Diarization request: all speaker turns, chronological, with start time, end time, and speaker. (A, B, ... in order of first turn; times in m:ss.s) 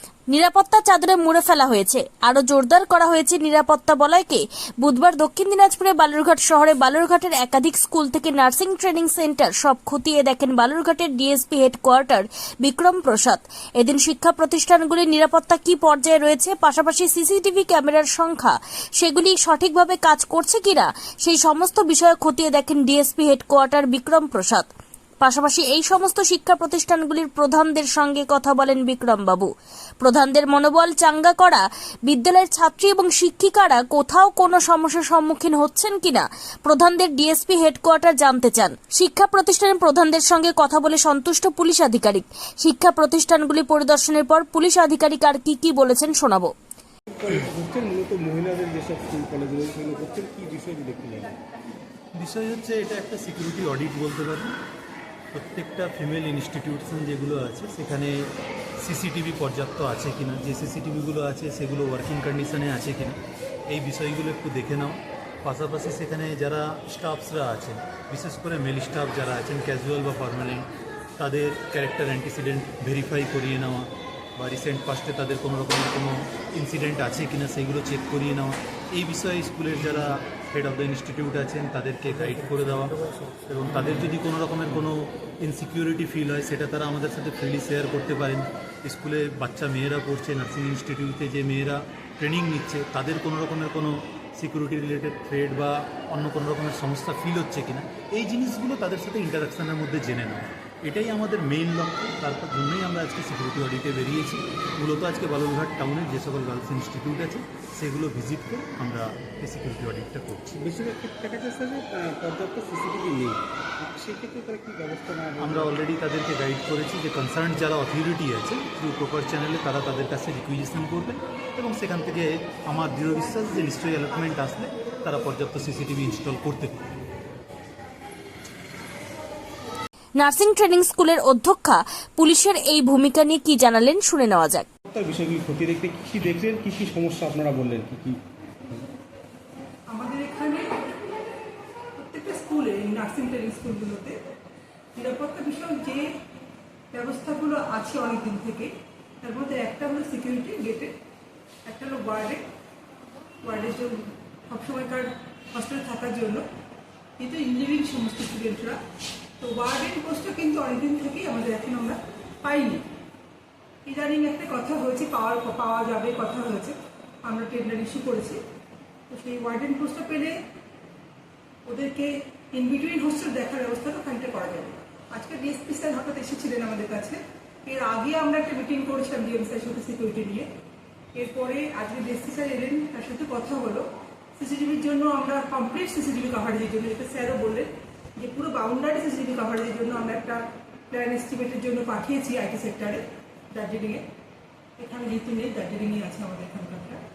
0:00.3-0:24.7 A
0:25.2-0:29.5 A
0:30.0-0:46.5 A
0:47.1-0:51.4 B
0:52.2-0:54.5 C
0:55.3-0:58.2 C
0:58.8-1:03.2 C
1:03.7-1:50.4 C
1:50.5-1:55.7 B
1:55.4-2:06.8 C
2:10.2-2:14.6 A
2:14.9-2:18.8 B
2:20.0-2:20.6 D
2:22.0-2:24.1 D
2:24.9-2:26.0 D
2:26.9-2:28.7 D
2:29.2-2:30.9 D
2:31.6-2:32.4 D
2:33.4-2:33.9 D
2:34.5-2:36.4 D
2:37.2-2:38.8 D
2:39.4-2:42.8 D
2:43.8-2:46.7 D
2:47.2-2:48.4 D
2:49.1-2:50.3 D
2:51.6-2:57.1 D
2:57.6-3:00.4 D
3:01.1-3:03.8 D
3:04.4-3:07.6 D
3:08.2-3:10.3 D
3:10.9-3:13.0 D
3:13.5-3:14.0 D
3:14.8-3:17.0 D